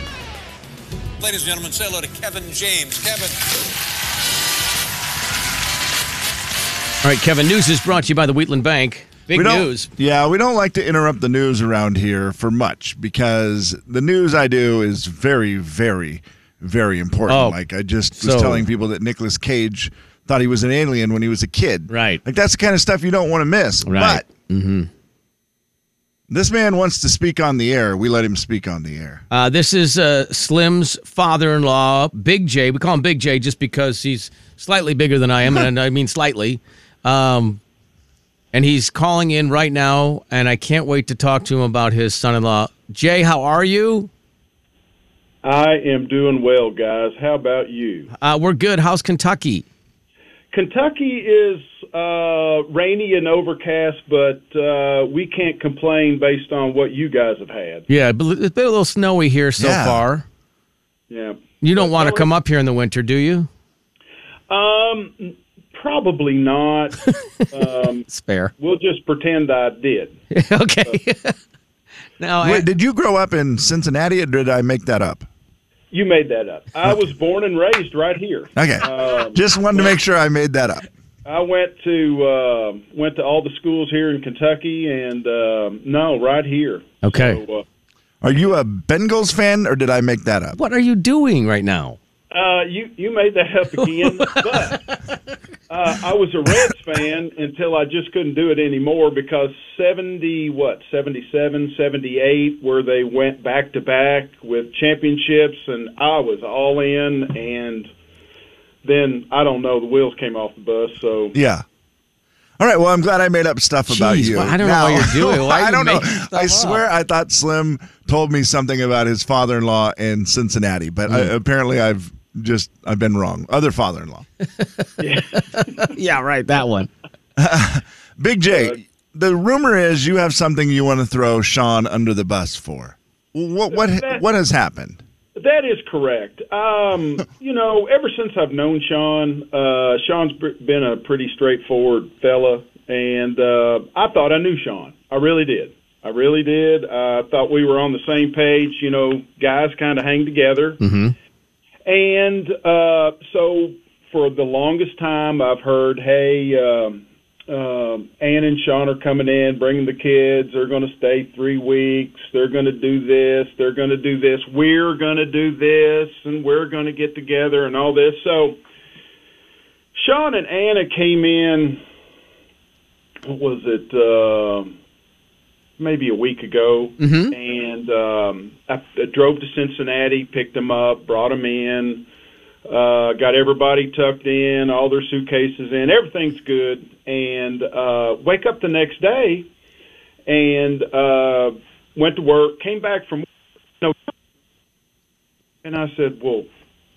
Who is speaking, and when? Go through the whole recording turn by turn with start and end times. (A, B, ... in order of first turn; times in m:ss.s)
0:01.2-0:03.4 A
0:07.0-0:09.9 B
0:09.3-0:24.2 C
0:17.3-0:17.6 B
0:18.1-0:18.7 B
0:21.9-0:22.2 B
0:23.8-0:24.9 B
0:26.3-0:29.2 C
0:29.3-0:37.6 B
0:38.5-0:44.1 B
0:45.4-0:48.1 D
0:48.2-0:49.7 B
0:50.5-0:57.8 D
0:57.9-1:00.2 B
0:59.6-1:00.0 C
1:01.1-1:02.3 D
1:01.6-1:03.5 B
1:04.5-1:07.0 D
1:07.1-1:07.4 B
1:07.5-1:10.2 D
1:08.1-1:08.5 B
1:10.3-1:11.4 B
1:12.2-1:12.7 B
1:12.4-1:15.3 C
1:15.9-1:19.9 D
1:18.6-1:20.9 C
1:21.2-1:27.6 D
1:27.0-1:27.4 B
1:28.2-1:30.6 C
1:30.5-1:32.0 B
1:32.3-1:34.8 D
1:33.8-1:34.9 B
1:35.7-1:47.9 D
1:48.8-1:51.4 D
1:51.3-1:51.6 C
1:52.6-2:04.3 C
1:53.9-1:56.8 B
2:04.6-2:06.9 B
2:05.0-2:05.9 D
2:07.4-2:15.0 C
2:13.7-2:14.2 D
2:15.4-2:30.8 D
2:30.8-2:31.1 B
2:31.9-2:48.6 D
2:50.0-2:51.8 D
2:53.3-2:54.8 D
2:55.8-3:02.0 D
2:57.0-2:57.3 B
3:02.7-3:09.5 D
3:10.3-3:13.3 D
3:15.6-3:16.5 D